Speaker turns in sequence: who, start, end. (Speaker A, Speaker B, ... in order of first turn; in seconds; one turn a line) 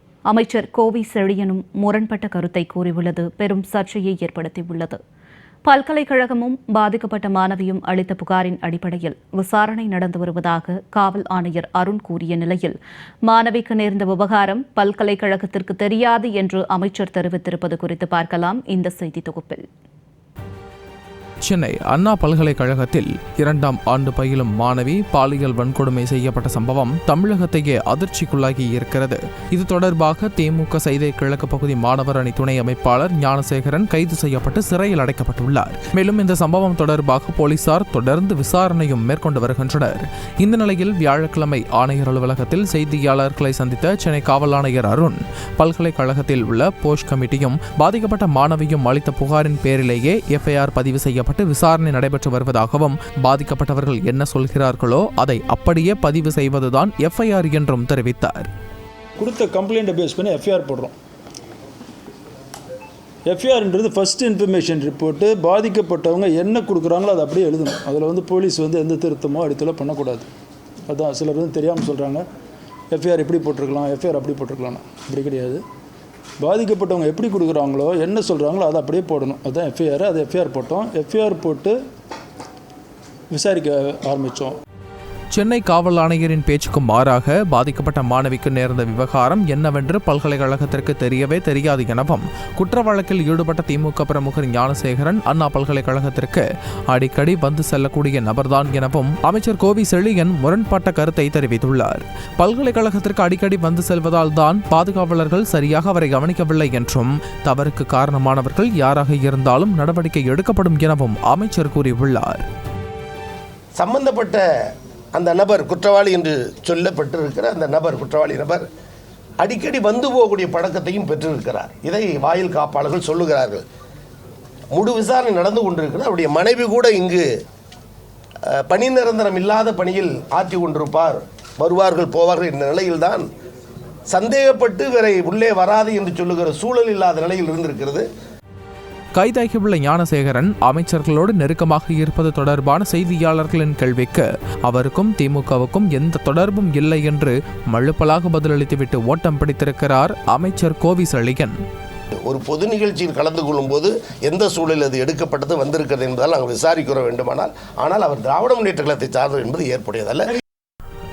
Speaker A: 0.3-5.0
Speaker A: 5.7-19.6
Speaker B: 21.4-58.5
Speaker C: 59.2-60.9
Speaker C: 63.3-70.3
Speaker C: 70.9-72.2
Speaker C: 72.9-75.6
Speaker C: 76.4-81.8
Speaker C: 83.3-84.6
Speaker B: 85.3-112.4
Speaker D: 113.8-114.4
Speaker D: 115.1-118.6
Speaker D: 119.4-123.6
Speaker D: 124.7-127.3
Speaker D: 128.5-133.2
Speaker D: 134.1-138.1
Speaker B: 139.2-151.6
Speaker D: 152.3-160.2